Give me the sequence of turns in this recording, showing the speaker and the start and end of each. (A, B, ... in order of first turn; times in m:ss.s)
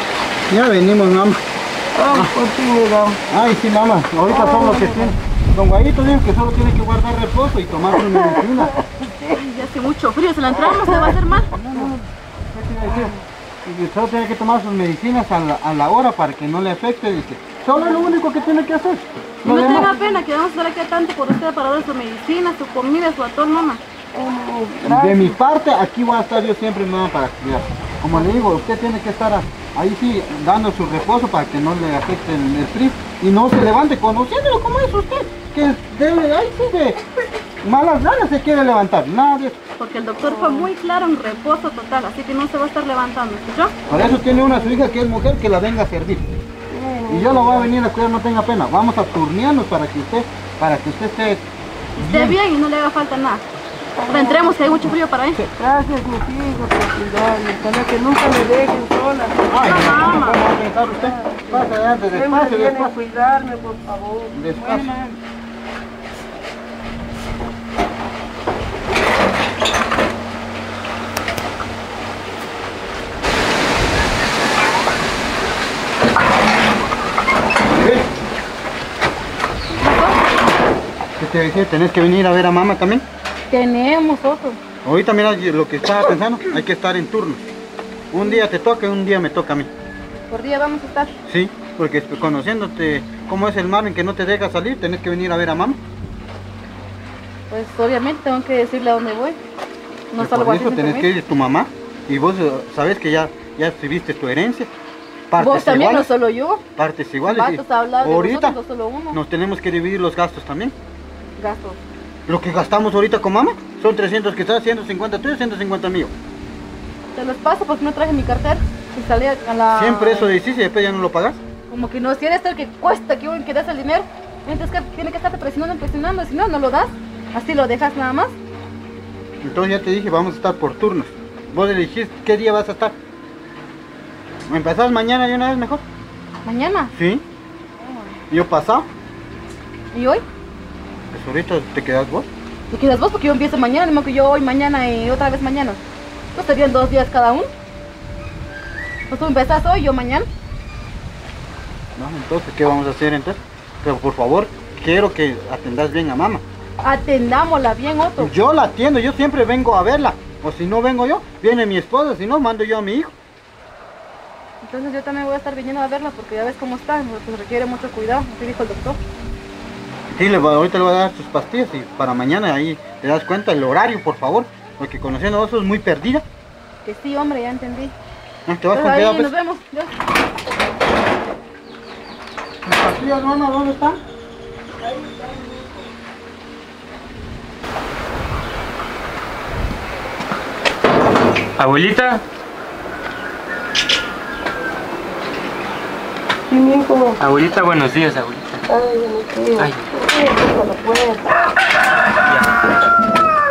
0:00.5-0:01.4 A
0:02.0-0:03.2 B
0:03.3-0:08.7 A
0:04.3-0:05.1 B
0:08.3-0:09.4 B
0:09.3-0:11.5 C
0:10.6-0:11.2 B
0:11.3-0:11.9 A
0:11.7-0:12.1 B
0:12.5-0:19.9 A
0:12.9-0:13.2 B
0:19.4-0:23.8 C
0:24.1-0:25.4 B
0:24.9-0:37.0 A
0:37.6-0:39.6 A
0:39.8-0:43.8 C
0:40.3-0:40.7 B
0:43.9-0:46.3 A
0:43.9-0:44.9 B
0:46.7-0:47.7 B
0:47.1-0:51.4 A
0:52.0-0:53.4 C
0:52.0-0:52.4 A
0:54.0-0:54.6 B
0:54.1-0:55.4 C
0:55.6-0:59.5 B
0:59.5-1:02.9 A
0:59.6-1:00.4 C
1:00.9-1:04.4 B
1:04.3-1:04.9 A
1:04.6-1:05.2 C
1:17.7-1:18.1 A
1:19.8-1:20.2 C
1:21.2-1:23.0 A
1:23.5-1:24.6 C
1:24.8-1:27.4 A
1:28.1-1:29.7 A
1:30.3-1:31.1 C
1:31.3-1:35.8 A
1:37.5-1:39.4 C
1:40.1-1:41.1 C
1:40.2-1:44.7 A
1:45.3-1:46.1 A
1:45.4-1:46.6 C
1:46.8-1:48.6 A
1:47.2-1:49.2 C
1:49.1-1:50.8 A
1:51.4-1:51.8 C
1:52.3-1:56.1 A
1:57.2-2:00.3 C
1:59.7-2:01.4 A
2:01.7-2:08.4 C
2:09.4-2:13.0 A
2:14.5-2:15.8 A
2:16.4-2:16.9 C
2:17.0-2:17.2 A
2:17.8-2:18.1 C
2:18.3-2:18.9 A
2:19.9-2:20.2 C
2:21.1-2:22.3 A
2:22.7-2:25.8 C
2:26.4-2:27.5 C
2:29.1-2:30.3 C
2:32.0-2:36.4 A
2:36.8-2:38.3 C
2:38.2-2:43.1 A
2:44.6-2:49.0 C
2:50.1-2:56.2 A
2:56.8-2:57.9 C
2:58.5-2:59.3 A
2:58.7-2:59.9 C
3:02.6-3:04.0 A
3:04.8-3:05.7 B
3:11.6-3:12.2 D
3:16.5-3:17.2 B
3:17.2-3:18.6 D
3:18.7-3:21.3 B
3:19.6-3:19.8 D
3:22.3-3:22.6 D